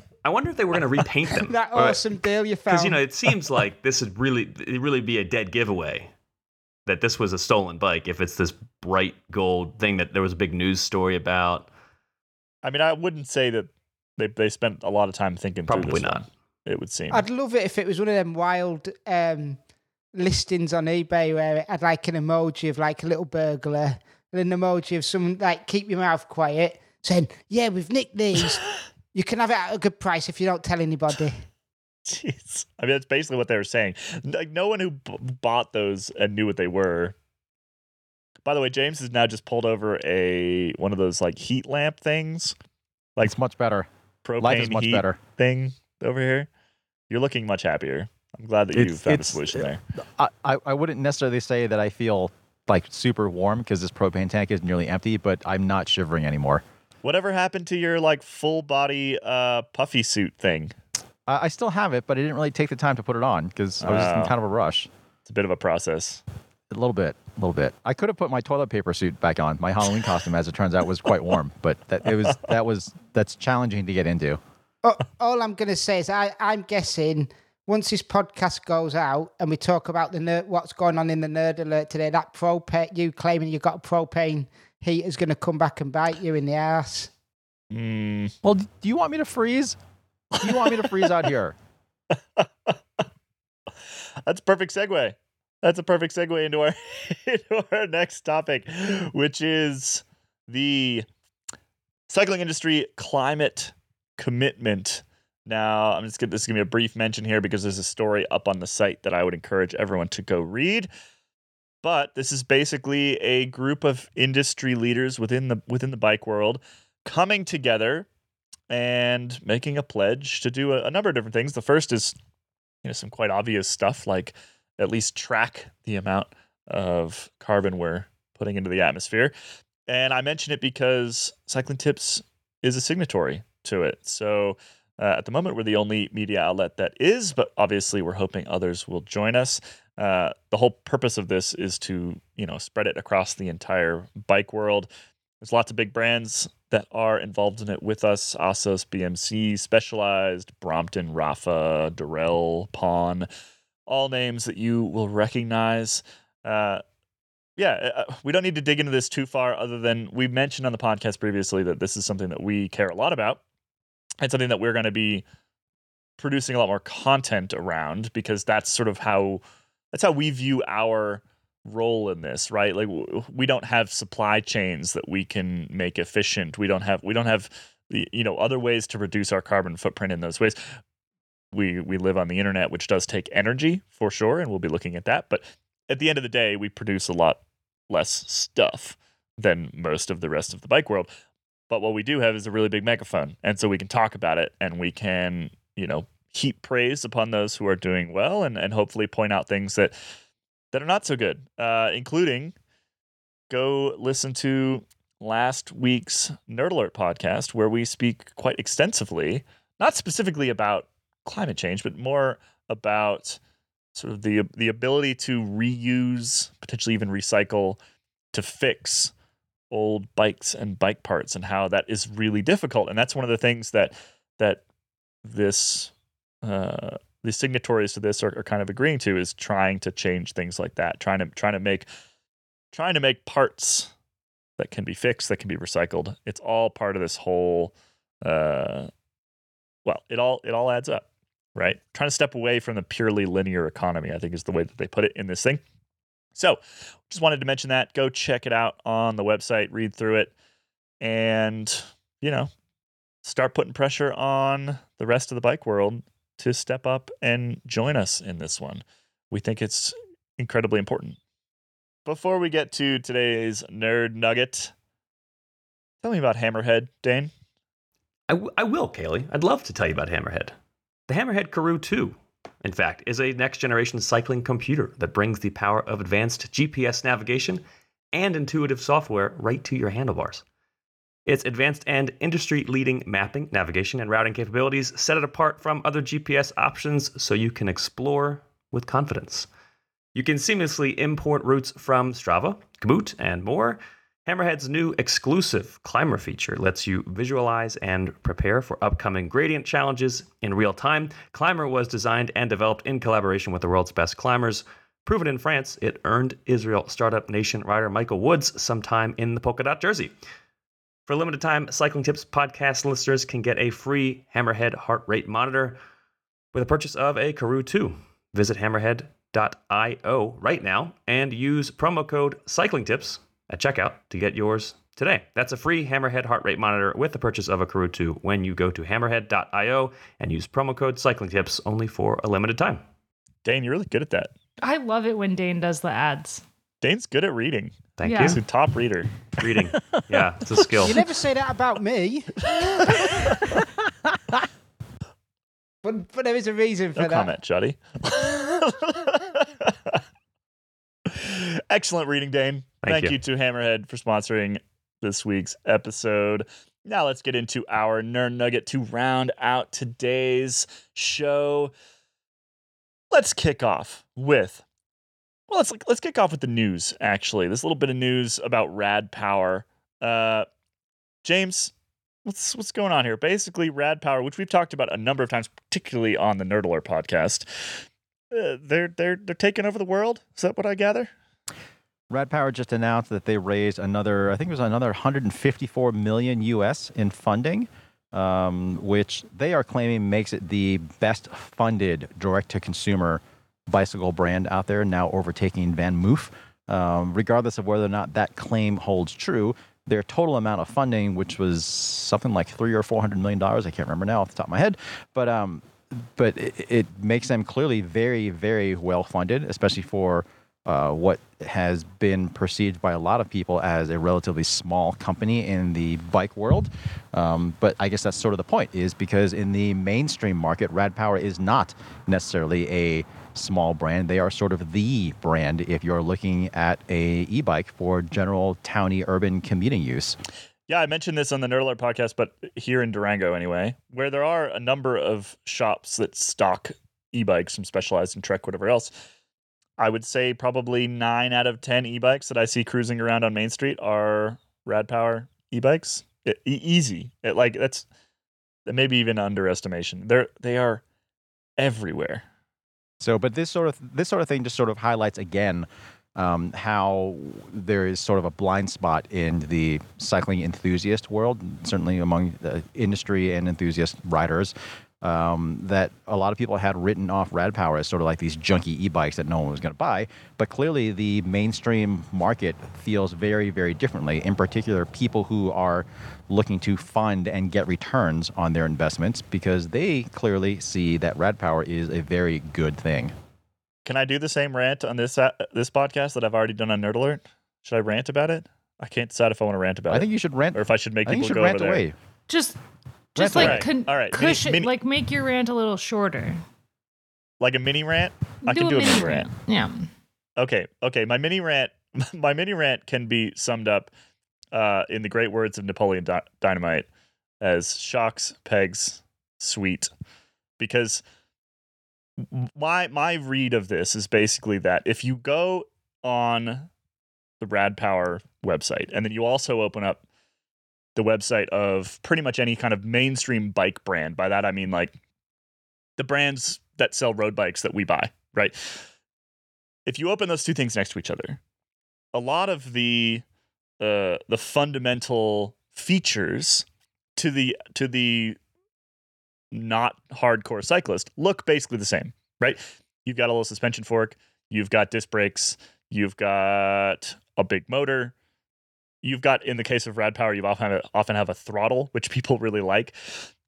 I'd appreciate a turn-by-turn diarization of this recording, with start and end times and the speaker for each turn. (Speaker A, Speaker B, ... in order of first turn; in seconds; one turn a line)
Speaker A: 0.2-1.9
Speaker B: 1.3-3.0
Speaker A: 2.7-6.1
Speaker A: 6.9-11.7
Speaker C: 12.6-17.2
Speaker A: 15.7-16.2
Speaker B: 17.1-19.6
Speaker B: 20.1-28.6
Speaker B: 29.1-31.4
Speaker C: 32.1-37.2
Speaker C: 38.4-42.5
Speaker D: 43.2-43.9
Speaker C: 44.2-46.5
Speaker D: 44.4-45.2
Speaker C: 47.1-49.8
Speaker D: 48.7-49.6
Speaker D: 50.2-56.6
Speaker C: 57.0-60.7
Speaker D: 61.3-64.9
Speaker C: 63.8-64.3
Speaker C: 65.2-66.2
Speaker D: 66.7-74.4
Speaker B: 74.8-87.1
Speaker C: 87.7-88.3
Speaker D: 88.4-89.8
Speaker D: 90.4-91.6
Speaker C: 92.1-92.8
Speaker C: 94.2-101.1
Speaker C: 102.1-110.9
Speaker C: 111.8-118.1
Speaker C: 118.7-122.1
Speaker C: 122.8-129.3
Speaker C: 129.9-144.9
Speaker C: 145.4-153.3
Speaker C: 153.9-156.8
Speaker C: 157.6-163.4
Speaker C: 164.2-165.2
Speaker C: 166.2-180.6
Speaker C: 181.5-191.1
Speaker C: 191.7-200.0
Speaker C: 200.7-202.5
Speaker C: 203.5-213.4
Speaker C: 213.9-217.8
Speaker C: 218.3-219.1
Speaker C: 219.7-224.6
Speaker C: 225.2-231.9
Speaker C: 232.7-233.9
Speaker C: 234.6-238.9
Speaker C: 239.8-245.6
Speaker C: 246.3-250.3
Speaker C: 251.0-252.5
Speaker C: 253.2-261.2
Speaker C: 262.1-264.7
Speaker C: 266.0-267.3
Speaker A: 268.3-270.5
Speaker A: 271.1-277.6
Speaker A: 278.1-280.4
Speaker A: 281.3-289.5
Speaker A: 290.1-310.1
Speaker A: 311.1-315.8
Speaker A: 316.5-332.8
Speaker C: 333.4-334.3
Speaker E: 334.6-336.4
Speaker C: 336.8-340.2
Speaker A: 338.0-338.4
Speaker E: 338.0-338.4
Speaker A: 339.4-341.0
Speaker B: 340.9-343.5
Speaker C: 342.5-343.6
Speaker B: 345.8-347.3
Speaker C: 347.0-350.0
Speaker C: 351.1-361.7
Speaker A: 352.8-353.2
Speaker C: 363.1-364.6
Speaker C: 365.5-370.5
Speaker C: 371.2-371.7
Speaker C: 372.2-381.1
Speaker D: 382.1-430.2
Speaker C: 430.7-438.9
Speaker C: 439.8-447.9
Speaker C: 448.7-450.8
Speaker C: 451.6-452.2
Speaker D: 453.0-483.1
Speaker C: 483.9-491.8
Speaker D: 489.9-491.9
Speaker E: 492.3-492.6
Speaker E: 493.1-496.4
Speaker D: 493.2-493.7
Speaker C: 493.4-494.7
Speaker C: 497.4-499.3
Speaker E: 498.4-499.9
Speaker C: 500.4-503.9
Speaker C: 504.5-506.9
Speaker C: 507.4-509.9
Speaker C: 510.6-511.0
Speaker C: 512.2-516.7
Speaker C: 517.4-520.0
Speaker C: 521.0-525.0
Speaker C: 526.0-528.8
Speaker C: 529.9-531.4
Speaker C: 532.1-533.2
Speaker C: 533.8-538.4
Speaker C: 539.5-548.1
Speaker C: 549.0-553.3